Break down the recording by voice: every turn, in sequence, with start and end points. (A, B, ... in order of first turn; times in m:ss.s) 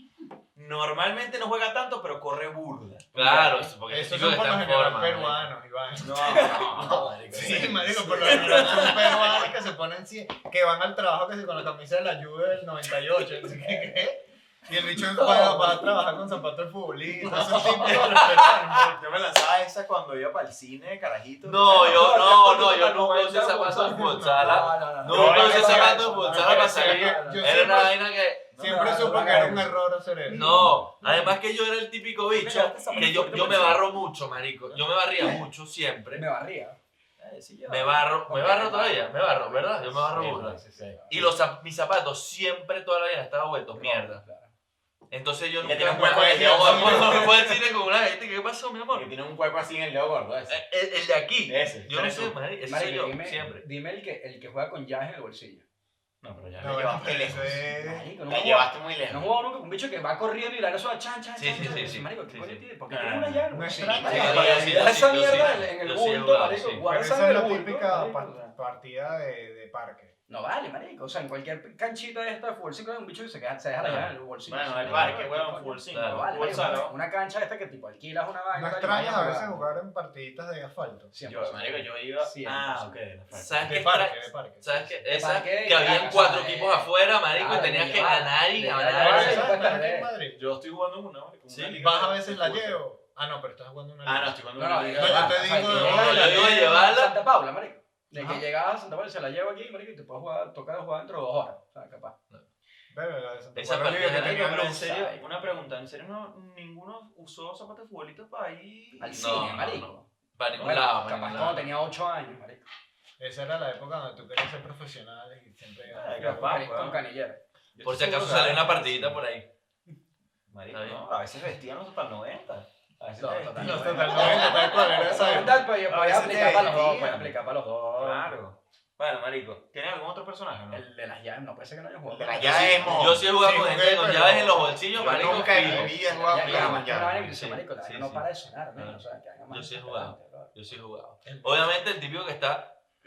0:00.5-0:03.4 A
0:03.1-0:03.7 B
0:03.1-0:05.5 C
0:03.9-0:19.0 D
0:06.0-0:09.5 A
0:06.2-0:07.1 B
0:06.5-0:07.8 C
0:08.2-0:09.3 B
0:15.0-0:16.0 B
0:17.2-0:18.2 B
0:17.8-0:18.5 C
0:18.7-0:22.1 A
0:21.4-0:28.4 C
0:21.6-0:27.6 B
0:23.7-0:30.6 D
0:28.5-0:29.6 A
0:28.6-0:31.3 B
0:30.3-0:36.2 C
0:32.3-0:33.9 B
0:33.2-0:33.8 A
0:36.1-0:36.8 B
0:37.2-0:38.1 A
0:37.7-0:44.2 C
0:38.2-0:41.2 B
0:40.1-0:41.3 A
0:43.8-0:44.0 A
0:43.8-0:44.5 B
0:45.1-0:49.1 C
0:45.6-0:47.5 A
0:45.7-0:47.5 D
0:48.9-0:50.6 A
0:50.5-0:53.6 C
0:51.4-0:52.4 A
0:52.6-0:55.6 B
0:56.2-0:57.6 A
0:56.6-0:58.1 D
0:57.3-1:08.5 B
0:58.2-0:59.3 A
1:01.4-1:02.6 C
1:02.9-1:05.6 A
1:03.5-1:04.7 D
1:04.0-1:06.8 C
1:06.8-1:10.1 D
1:10.3-1:19.7 B
1:13.8-1:14.1 C
1:13.8-1:16.9 A
1:14.8-1:15.2 C
1:15.9-1:16.7 C
1:18.5-1:21.1 D
1:21.1-1:23.0 B
1:21.2-1:23.9 A
1:23.3-1:29.5 C
1:23.6-1:25.1 D
1:25.1-1:30.1 B
1:29.0-1:30.4 D
1:30.3-1:32.8 A
1:31.5-1:31.8 C
1:31.8-1:34.4 D
1:34.0-1:36.4 A
1:34.6-1:42.1 B
1:34.9-1:36.6 D
1:35.5-1:37.2 C
1:38.1-1:38.4 D
1:42.9-1:44.8 D
1:43.5-1:44.5 C
1:44.0-1:49.5 A
1:44.4-1:45.6 B
1:49.0-1:52.6 B
1:49.1-1:51.7 C
1:50.6-1:51.5 A
1:53.2-1:56.7 D
1:55.9-1:57.0 A
1:56.2-1:57.4 B
1:57.7-1:59.2 A
1:57.8-1:59.5 C
2:00.5-2:07.4 A
2:00.7-2:01.0 C
2:03.2-2:08.3 B
2:03.6-2:06.8 D
2:08.0-2:10.8 A
2:10.7-2:13.2 B
2:12.1-2:13.3 A
2:12.8-2:22.8 C
2:13.1-2:14.8 D
2:14.9-2:17.5 A
2:15.1-2:20.5 B